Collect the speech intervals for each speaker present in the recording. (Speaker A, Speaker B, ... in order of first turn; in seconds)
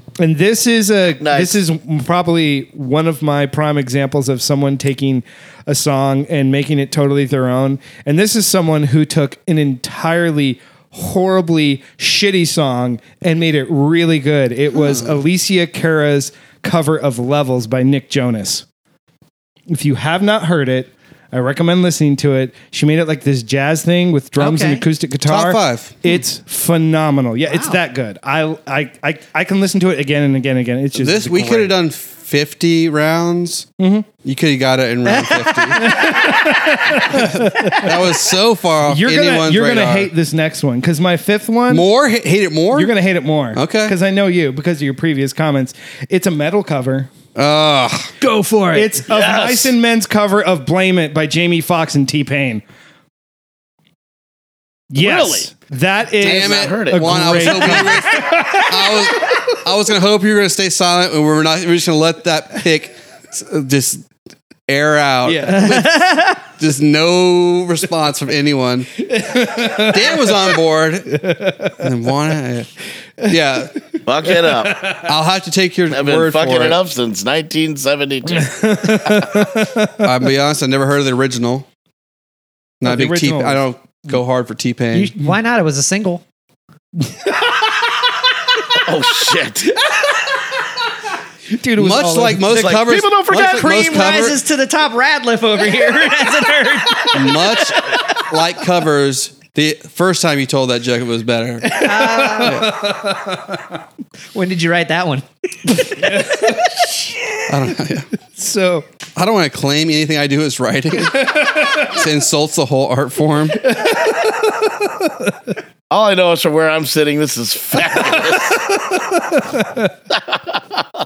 Speaker A: 0.2-18.6, 19.7-31.7, 33.8-34.1, 35.8-37.9, 38.9-41.9, 42.7-47.1, 48.7-52.6, 54.9-58.9, 65.2-65.7, 69.1-70.5, 71.2-71.8, 73.9-75.1, 78.4-80.1, 82.8-83.6, 87.1-87.9, 91.5-92.8, 101.6-103.6, 105.8-107.4, 108.3-108.9, 111.2-111.8, 113.6-115.3, 118.2-119.9
Speaker B: 1.2-1.6, 49.0-49.7, 55.0-55.5, 56.2-58.0, 74.1-74.9, 75.9-79.1, 88.8-89.7, 92.5-94.2, 115.9-118.7, 120.1-120.8
Speaker C: 14.8-15.1, 25.2-26.0, 30.9-33.7, 34.2-36.2, 37.1-40.1, 41.7-42.9, 43.5-43.9, 47.4-48.1, 56.2-64.1, 64.7-72.7, 73.2-73.7, 75.0-76.8, 80.0-81.7, 82.8-85.1, 91.8-94.4, 97.1-101.8, 102.4-102.7, 107.5-108.1, 109.2-113.7
Speaker D: 24.4-24.9, 27.5-27.8, 35.1-37.9, 48.2-48.9, 65.5-66.4, 84.9-86.2, 93.3-98.2, 101.8-102.7, 104.3-106.7